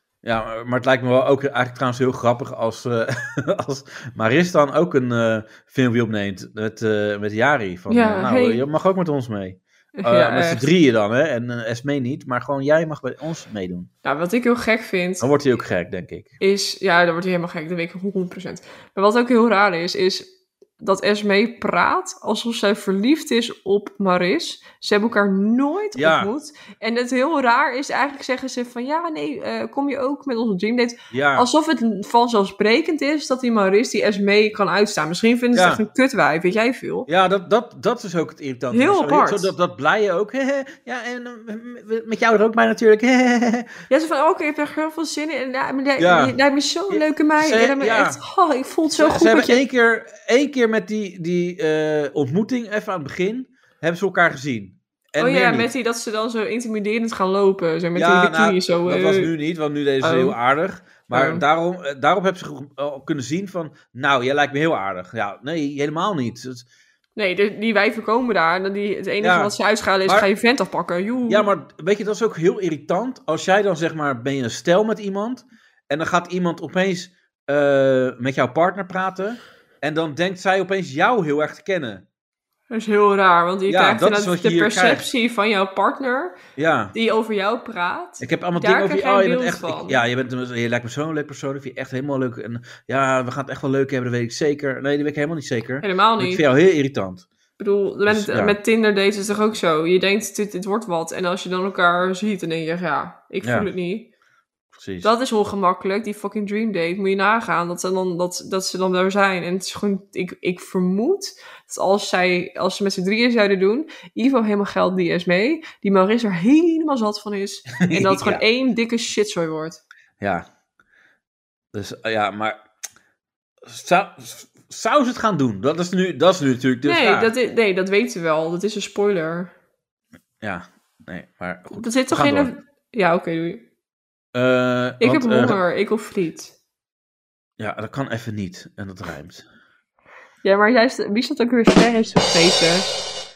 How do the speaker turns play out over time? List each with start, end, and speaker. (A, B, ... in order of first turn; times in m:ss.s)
0:00.2-0:13.9 A
0:07.9-0:08.6 B
0:10.0-0:10.7 B
0:14.0-0:15.3 B
0:15.2-0:16.3 A
0:16.4-0:37.1 B
0:25.9-0:26.3 A
0:31.1-0:31.5 A
0:35.5-0:35.8 A
0:37.1-0:43.7 A
0:38.7-0:39.5 B
0:43.9-0:49.6 B
0:46.0-0:46.4 A
0:46.9-0:48.2 A
0:48.9-0:55.7 A
0:55.2-0:59.3 B
0:57.9-1:06.6 A
1:00.0-1:00.4 B
1:01.1-1:01.4 B
1:07.2-1:11.5 B
1:09.2-1:09.5 A
1:11.3-1:22.0 A
1:22.7-1:26.4 B
1:23.7-1:25.1 A
1:26.6-1:26.9 A
1:26.9-1:30.0 B
1:28.2-1:37.2 A
1:35.8-1:36.4 B
1:37.6-1:44.1 B
1:38.1-1:38.6 A
1:43.4-1:43.7 A
1:44.7-1:45.1 A
1:45.0-1:59.8 B
1:57.7-1:58.4 A
2:00.2-2:00.5 A
2:01.7-2:02.6 A
2:03.7-2:07.3 A
2:06.8-2:09.5 B
2:10.4-2:12.5 A
2:11.7-2:13.6 B
2:14.3-2:15.6 A
2:15.0-2:16.5 B
2:17.6-2:19.4 A
2:20.4-2:22.9 B